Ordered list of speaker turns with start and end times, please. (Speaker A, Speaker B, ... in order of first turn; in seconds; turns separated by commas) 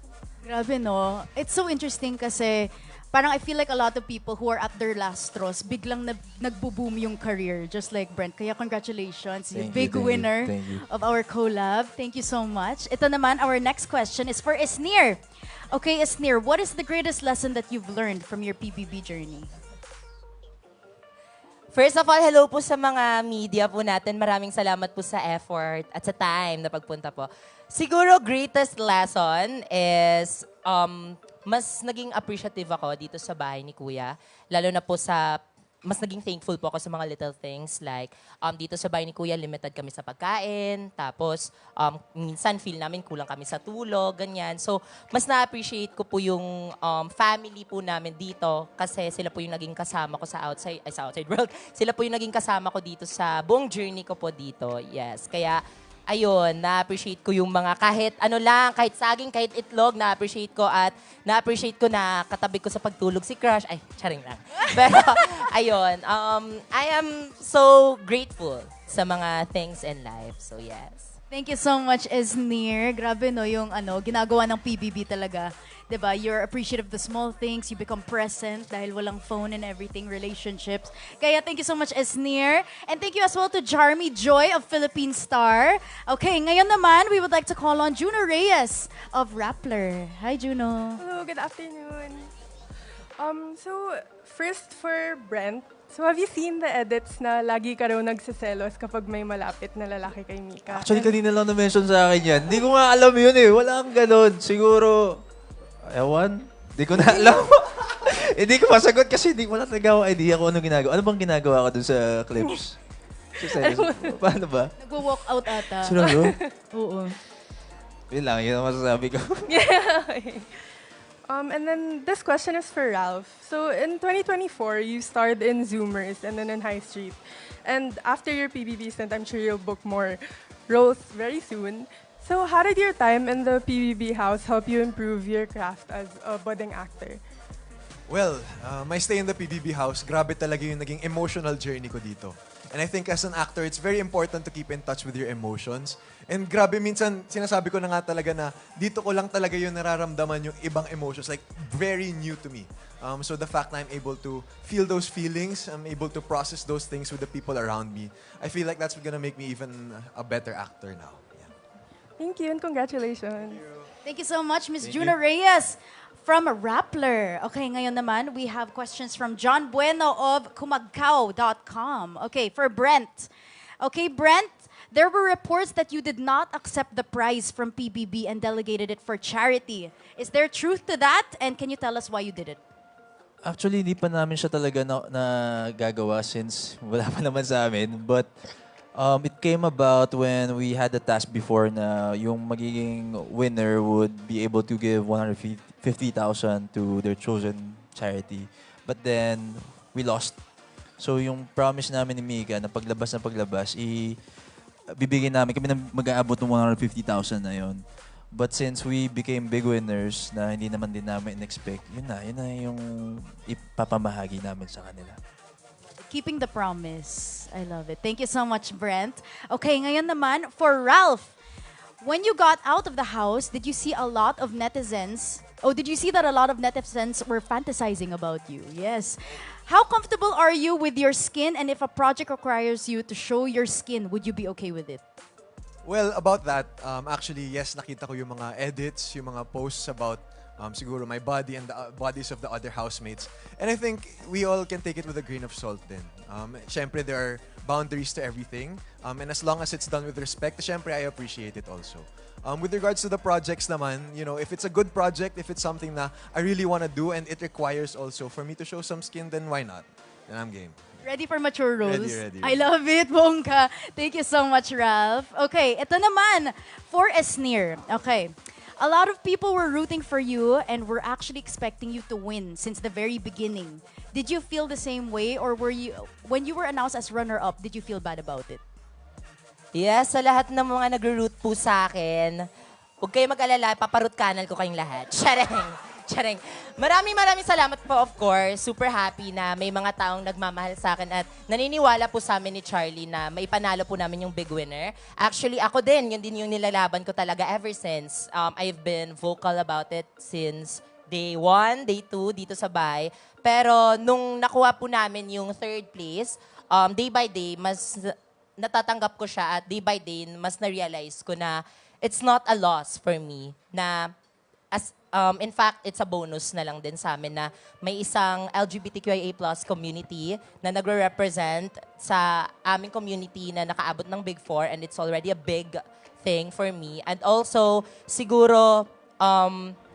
Speaker A: 0.4-15.2, Speaker B: 9.5-10.8, Speaker A: 15.7-19.5, Speaker C: 21.7-35.3, Speaker C: 35.9-55.6, Speaker C: 56.1-71.1, Speaker A: 71.3-91.0, Speaker D: 91.0-92.3, Speaker D: 93.2-101.1, Speaker B: 100.7-105.2, Speaker B: 105.9-112.8, Speaker B: 113.4-114.7, Speaker D: 113.5-114.2, Speaker A: 114.8-116.0, Speaker B: 115.8-116.4, Speaker D: 116.1-116.5, Speaker A: 116.7-117.2, Speaker B: 118.1-119.6, Speaker D: 119.5-120.6, Speaker D: 121.3-137.2, Speaker E: 138.1-161.5, Speaker D: 162.2-163.6, Speaker A: 164.0-173.3, Speaker A: 173.8-182.6, Speaker B: 183.4-188.3, Speaker B: 189.0-200.4, Speaker B: 201.0-204.2, Speaker B: 205.0-207.8, Speaker B: 208.3-215.2, Speaker A: 216.0-221.3, Speaker A: 222.0-235.0, Speaker E: 235.8-260.9, Speaker A: 261.0-278.6, Speaker E: 261.8-262.6, Speaker C: 279.7-282.4, Speaker C: 283.0-314.1, Speaker C: 314.7-329.8